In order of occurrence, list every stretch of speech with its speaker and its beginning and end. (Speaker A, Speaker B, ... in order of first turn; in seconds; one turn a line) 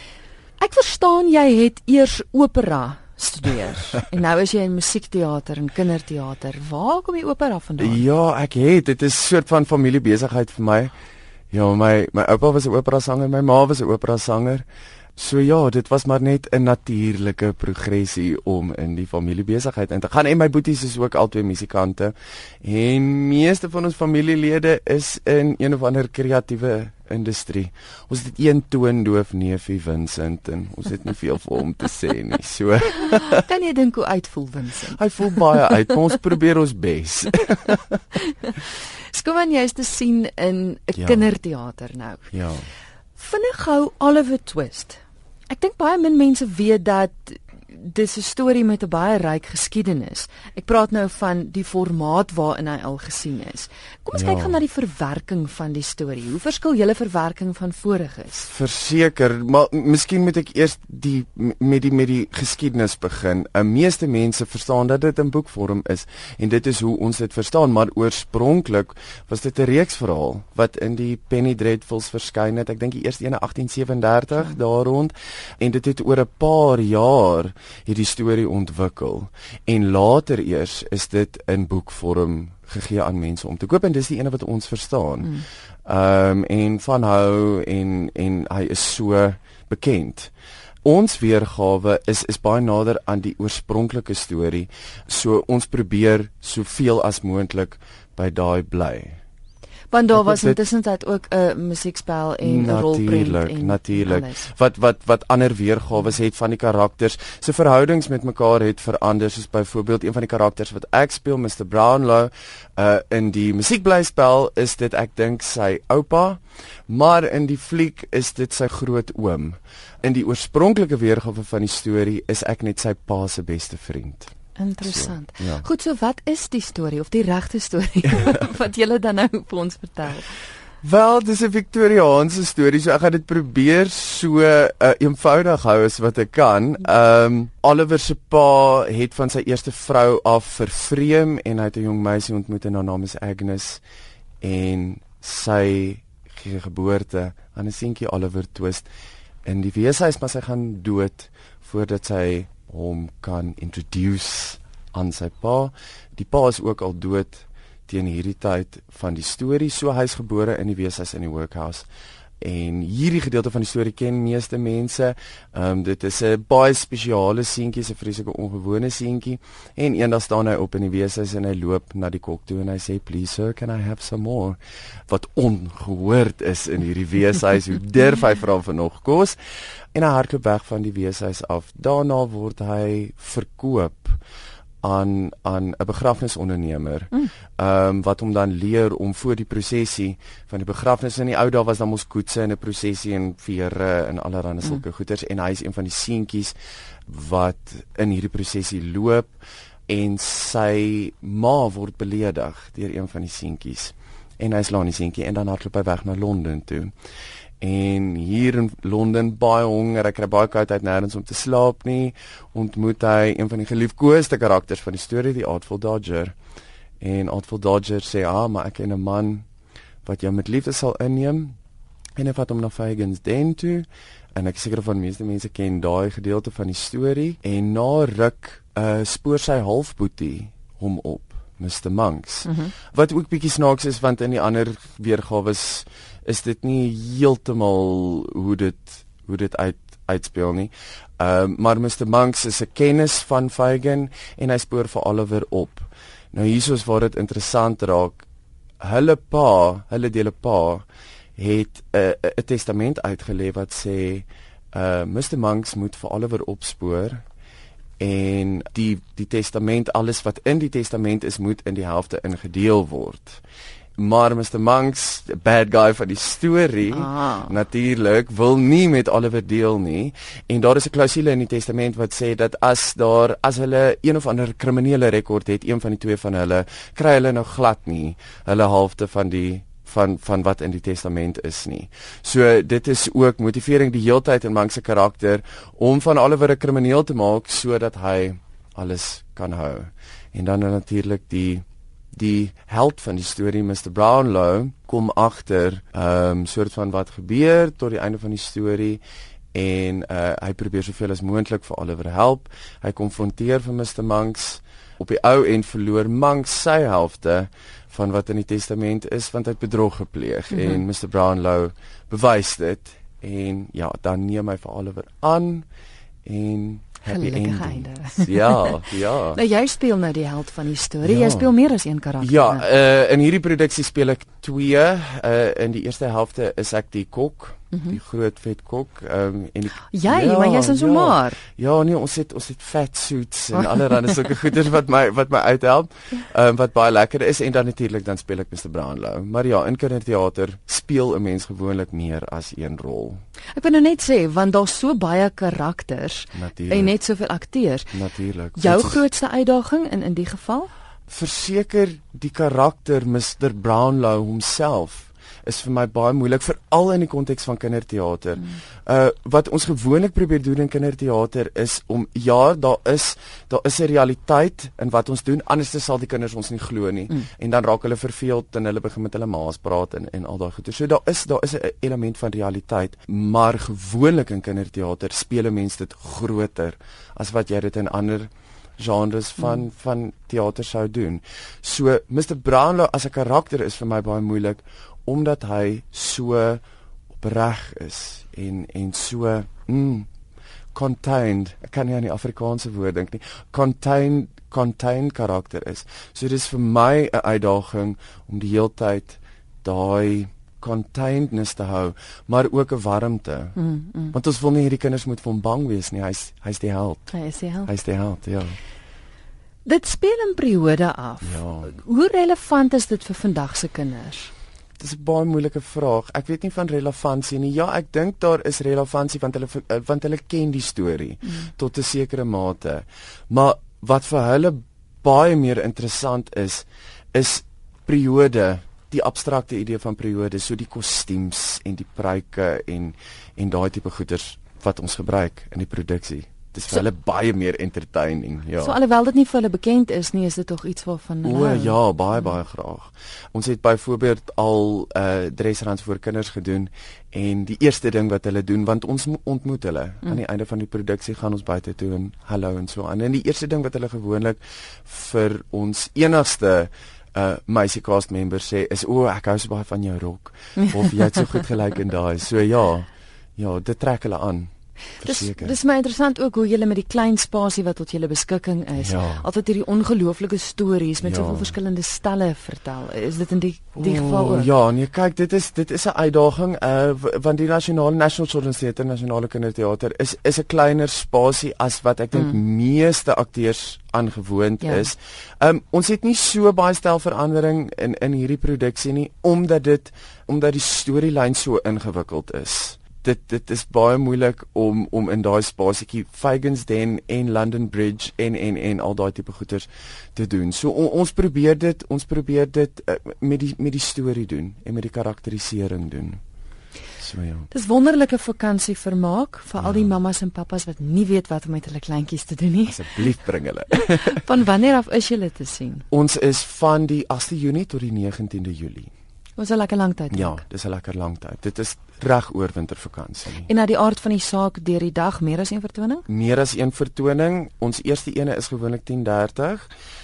Speaker A: 0.6-8.0
Speaker B: 7.8-10.9
Speaker B: 11.5-33.4
Speaker A: 33.3-35.7
Speaker B: 34.9-38.0
Speaker A: 38.3-42.3
Speaker B: 41.0-41.3
Speaker B: 42.3-42.7
Speaker A: 43.1-58.5
Speaker B: 54.1-54.6
Speaker B: 58.5-90.3
Speaker B: 90.8-99.2
Speaker A: 99.9-104.5
Speaker B: 100.1-100.6
Speaker B: 102.4-125.7
Speaker A: 124.5-130.4
Speaker B: 128.2-128.4
Speaker B: 130.8-143.8
Speaker B: 144.4-148.9
Speaker B: 149.4-161.9
Speaker B: 162.4-179.3
Speaker B: 179.9-184.2
Speaker B: 184.8-196.5
Speaker B: 197.1-199.3
Speaker B: 199.9-206.9
Speaker B: 207.6-216.3
Speaker B: 217.0-219.4
Speaker B: 220.0-221.6
Speaker B: 222.2-248.2
Speaker A: 232.4-232.7
Speaker B: 248.8-250.8
Speaker B: 251.3-257.2
Speaker B: 258.0-263.4
Speaker B: 264.0-299.0
Speaker A: 266.9-267.5
Speaker B: 299.5-315.6
Speaker A: 310.5-310.8
Speaker B: 316.2-319.4
Speaker A: 317.1-318.8
Speaker A: 319.3-322.6
Speaker B: 321.0-321.5
Speaker B: 322.2-343.2
Speaker A: 327.7-328.0
Speaker A: 329.9-331.4
Speaker A: 343.5-347.9
Speaker B: 346.3-346.9
Speaker B: 347.9-349.0
Speaker A: 348.6-350.7
Speaker B: 351.1-386.6
Speaker B: 387.2-390.1
Speaker B: 390.7-403.6
Speaker A: 403.6-404.1
Speaker B: 404.1-407.1
Speaker A: 407.1-407.7
Speaker B: 407.6-408.6
Speaker A: 409.6-414.3
Speaker B: 411.2-411.7
Speaker B: 414.8-438.8
Speaker A: 438.6-441.8
Speaker B: 441.2-465.6
Speaker A: 465.0-474.5
Speaker B: 468.8-469.2
Speaker B: 471.0-471.6
Speaker B: 473.8-506.2
Speaker A: 484.6-484.9
Speaker B: 507.0-507.5
Speaker A: 507.5-513.0
Speaker B: 509.6-509.9
Speaker B: 512.7-514.2
Speaker A: 513.7-515.8
Speaker B: 515.9-518.9
Speaker A: 519.4-520.4
Speaker B: 520.1-523.5
Speaker A: 523.5-526.0
Speaker B: 526.1-529.7